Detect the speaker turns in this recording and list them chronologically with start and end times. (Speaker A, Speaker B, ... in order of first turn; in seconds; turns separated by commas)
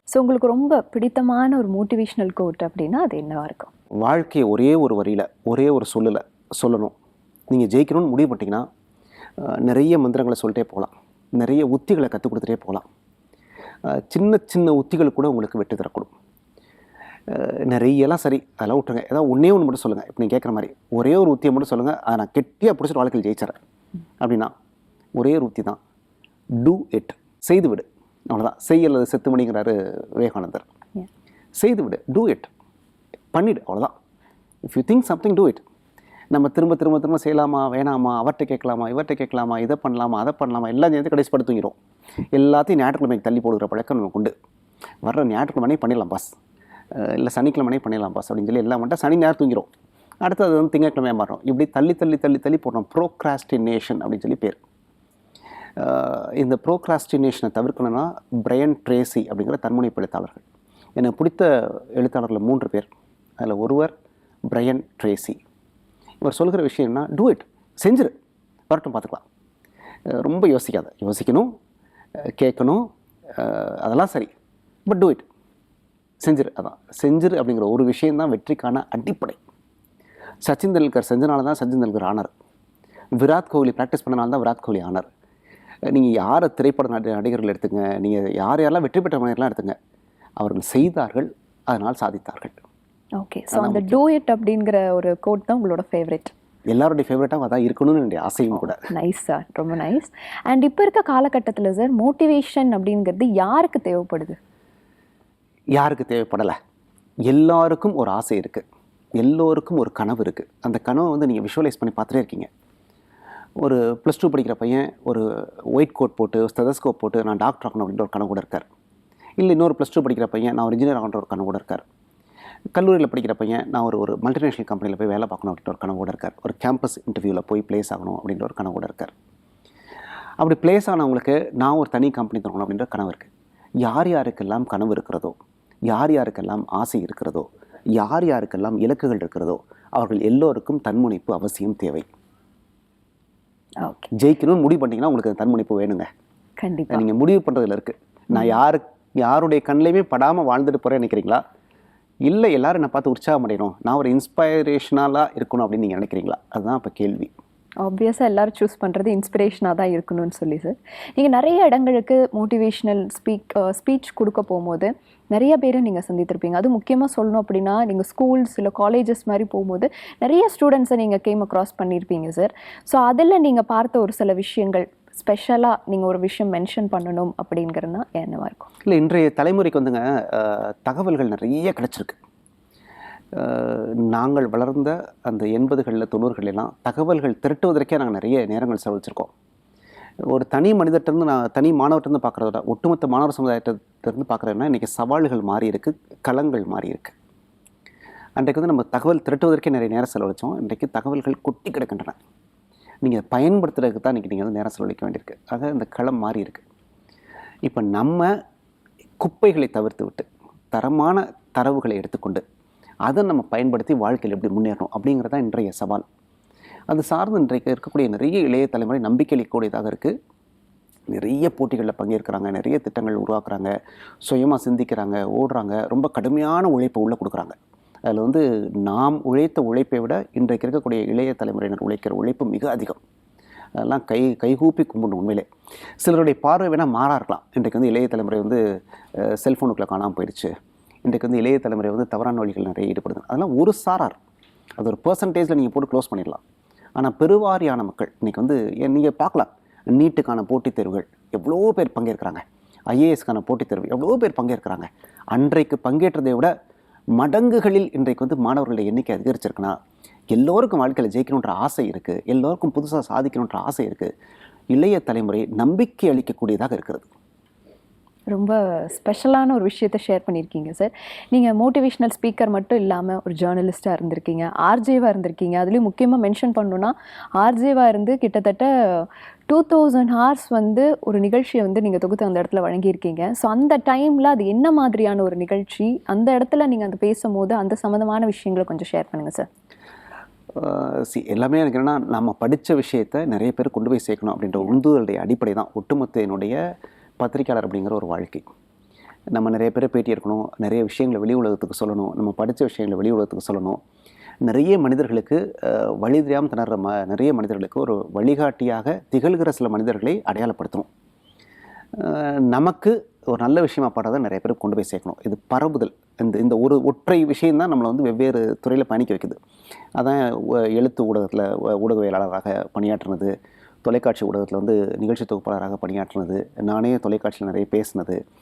Speaker A: 0.1-3.7, Speaker B: 4.0-6.9, Speaker B: 7.5-8.7, Speaker B: 9.4-12.9, Speaker B: 13.9-16.1, Speaker B: 17.3-23.6, Speaker B: 24.2-24.5, Speaker B: 25.2-25.8, Speaker B: 26.6-30.6, Speaker B: 31.6-32.5, Speaker B: 33.3-33.9, Speaker B: 34.7-35.6, Speaker B: 36.3-41.8, Speaker B: 42.4-44.3, Speaker B: 45.0-46.4, Speaker B: 46.9-49.7, Speaker B: 50.2-54.6, Speaker B: 55.8-60.4, Speaker B: 61.0-62.9, Speaker B: 63.4-63.9, Speaker B: 64.5-65.4, Speaker B: 66.2-68.1, Speaker B: 68.7-69.2, Speaker B: 70.1-71.5, Speaker B: 72.4-74.3, Speaker B: 74.9-75.3, Speaker B: 76.2-79.4, Speaker B: 80.4-82.3, Speaker B: 83.2-85.1, Speaker B: 85.9-89.8, Speaker B: 90.4-92.6, Speaker A: 93.2-96.3, Speaker B: 93.5-94.0, Speaker B: 96.7-98.8, Speaker A: 98.6-104.4, Speaker B: 105.8-106.6, Speaker B: 107.3-108.6, Speaker B: 109.2-112.5, Speaker B: 113.6-118.7, Speaker B: 119.4-121.8, Speaker B: 122.8-129.1, Speaker B: 130.4-133.3, Speaker B: 133.8-135.4, Speaker B: 135.9-142.1, Speaker A: 143.8-144.1, Speaker B: 144.1-146.1, Speaker A: 146.6-147.1, Speaker B: 146.9-151.4, Speaker B: 152.2-157.3, Speaker A: 157.8-178.7, Speaker B: 178.9-182.2, Speaker B: 183.3-189.3, Speaker B: 190.3-197.2, Speaker B: 198.4-202.2, Speaker B: 203.0-206.6, Speaker B: 207.7-208.3, Speaker B: 209.2-212.4, Speaker B: 213.1-216.0, Speaker B: 216.9-220.1, Speaker B: 221.1-223.7, Speaker B: 224.2-233.0, Speaker B: 233.8-235.5, Speaker B: 236.0-238.6, Speaker B: 239.2-240.5, Speaker B: 241.1-244.2, Speaker B: 244.8-246.4, Speaker B: 247.0-256.5, Speaker B: 257.2-259.8, Speaker B: 260.3-264.1, Speaker B: 264.7-267.1, Speaker A: 268.3-289.5, Speaker B: 290.6-296.6, Speaker B: 297.2-298.4, Speaker B: 299.4-303.8, Speaker B: 304.5-310.9, Speaker B: 312.0-319.4, Speaker B: 320.0-323.3, Speaker B: 323.8-328.2